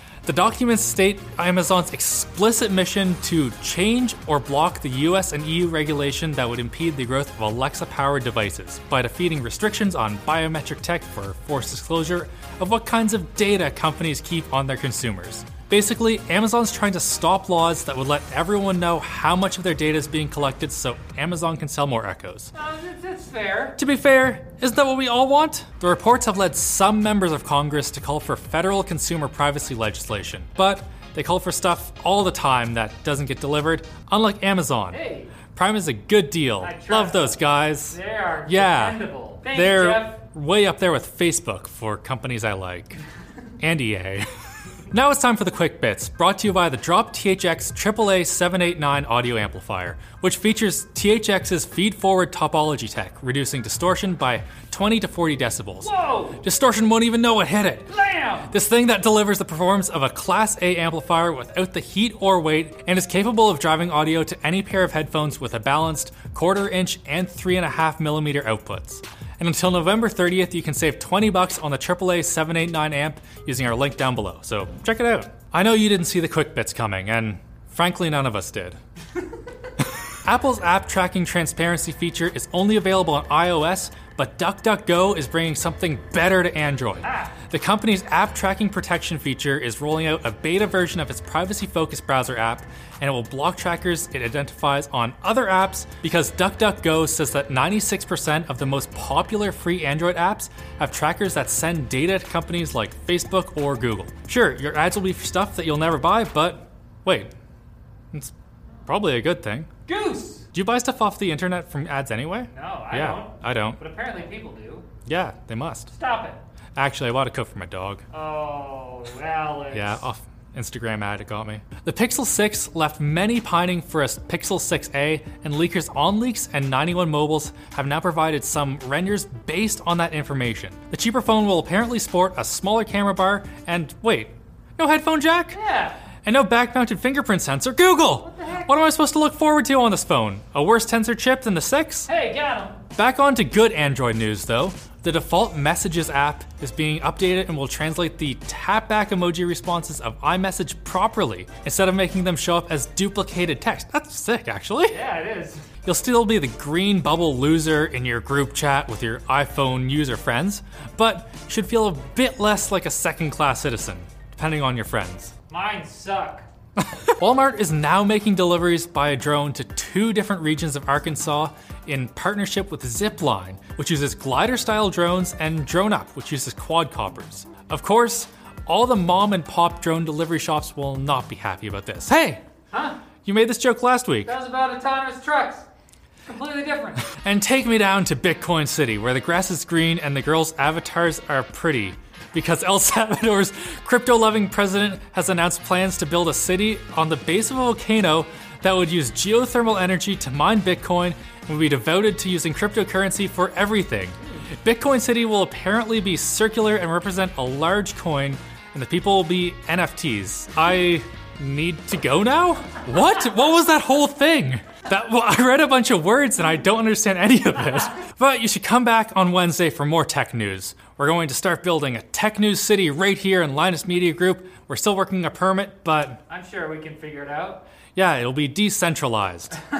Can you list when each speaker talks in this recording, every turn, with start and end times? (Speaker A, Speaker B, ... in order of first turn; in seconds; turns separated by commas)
Speaker A: 0.2-22.5, Speaker B: 22.5-23.8, Speaker A: 23.8-43.0, Speaker B: 34.9-35.4, Speaker B: 36.6-40.1, Speaker A: 43.6-44.2, Speaker A: 44.9-57.9, Speaker B: 55.8-56.4, Speaker B: 57.9-58.5, Speaker A: 58.5-78.8, Speaker A: 80.2-107.3, Speaker B: 87.0-87.3, Speaker A: 108.9-109.7, Speaker B: 109.9-110.5, Speaker A: 110.5-113.8, Speaker B: 112.5-114.9, Speaker A: 115.0-115.9, Speaker B: 115.9-116.4, Speaker A: 116.8-118.0, Speaker B: 118.1-120.0, Speaker A: 119.7-135.6, Speaker B: 135.5-136.0, Speaker A: 136.2-142.1, Speaker B: 138.2-138.7, Speaker B: 142.1-142.8, Speaker A: 142.9-155.0, Speaker B: 154.9-155.7, Speaker A: 155.8-165.3, Speaker B: 165.5-166.5, Speaker A: 167.0-182.4, Speaker B: 182.7-183.0, Speaker A: 183.2-184.3, Speaker B: 184.2-185.7, Speaker B: 186.3-187.0, Speaker A: 187.1-226.2, Speaker B: 226.3-227.7, Speaker A: 227.9-229.6